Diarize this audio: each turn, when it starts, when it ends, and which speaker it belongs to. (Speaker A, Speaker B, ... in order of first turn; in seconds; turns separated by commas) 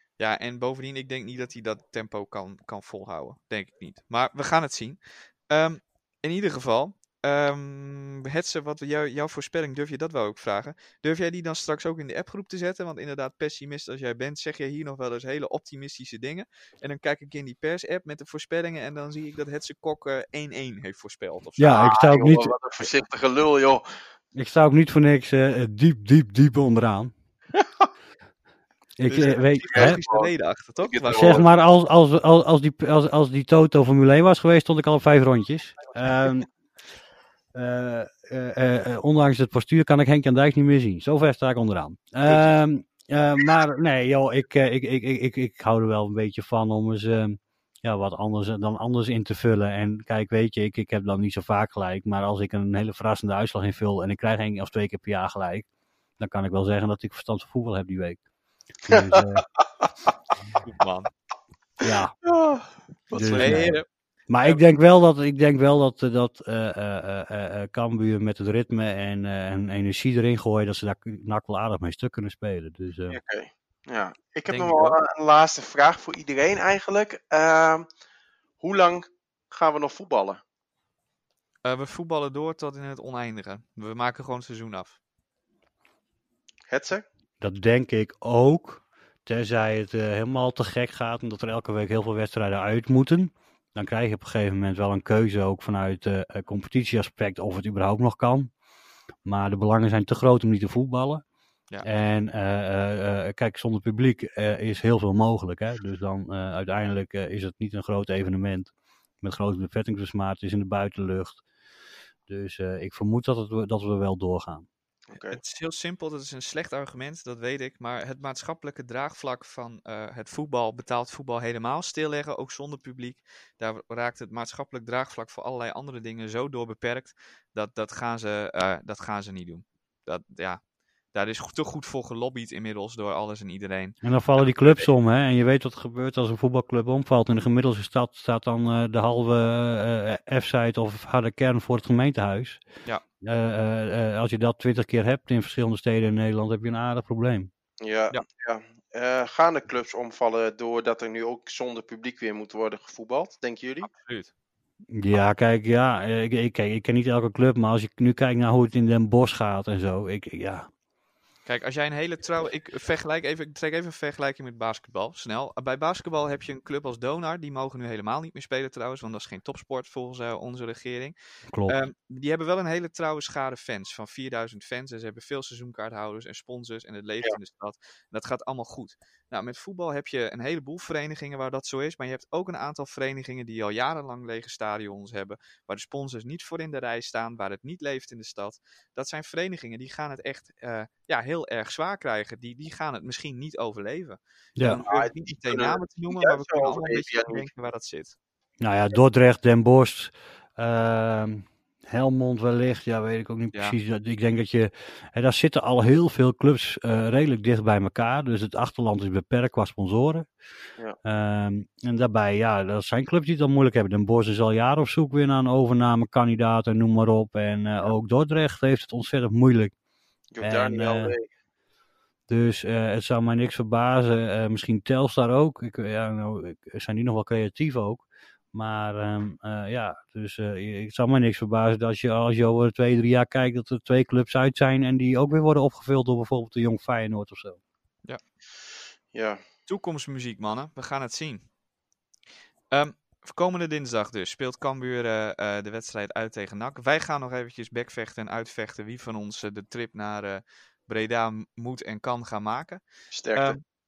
Speaker A: 0.2-21.8, Speaker B: 21.6-22.6, Speaker C: 21.6-23.8, Speaker B: 24.3-27.1, Speaker B: 29.0-30.0, Speaker A: 29.1-31.4, Speaker C: 29.7-31.4, Speaker B: 31.1-36.5, Speaker B: 37.5-55.7, Speaker C: 42.3-42.5, Speaker B: 56.2-58.2, Speaker B: 58.9-59.5, Speaker A: 60.6-61.1, Speaker B: 61.8-62.1, Speaker C: 62.3-63.7, Speaker B: 63.1-73.2, Speaker A: 63.3-63.8, Speaker C: 73.1-77.9, Speaker A: 74.5-75.0, Speaker C: 78.6-80.4, Speaker A: 81.6-85.0, Speaker C: 86.7-87.0, Speaker B: 87.4-98.5, Speaker B: 99.2-101.2, Speaker B: 101.8-108.7, Speaker B: 109.2-111.4, Speaker B: 112.3-114.7, Speaker C: 115.1-115.4, Speaker A: 115.3-130.6, Speaker A: 131.1-134.9, Speaker B: 134.0-142.6, Speaker B: 143.2-147.5, Speaker C: 147.8-153.9, Speaker A: 153.9-154.3, Speaker B: 154.9-160.7, Speaker A: 161.5-171.2, Speaker B: 171.5-171.8, Speaker A: 171.7-198.2, Speaker B: 194.6-194.8, Speaker C: 194.9-197.5, Speaker B: 198.6-210.3, Speaker B: 211.0-219.7, Speaker C: 220.3-221.3, Speaker B: 220.4-221.2, Speaker B: 222.3-237.6, Speaker C: 239.1-239.4, Speaker A: 239.7-241.5, Speaker A: 242.7-252.8, Speaker C: 253.1-253.6, Speaker A: 253.3-253.6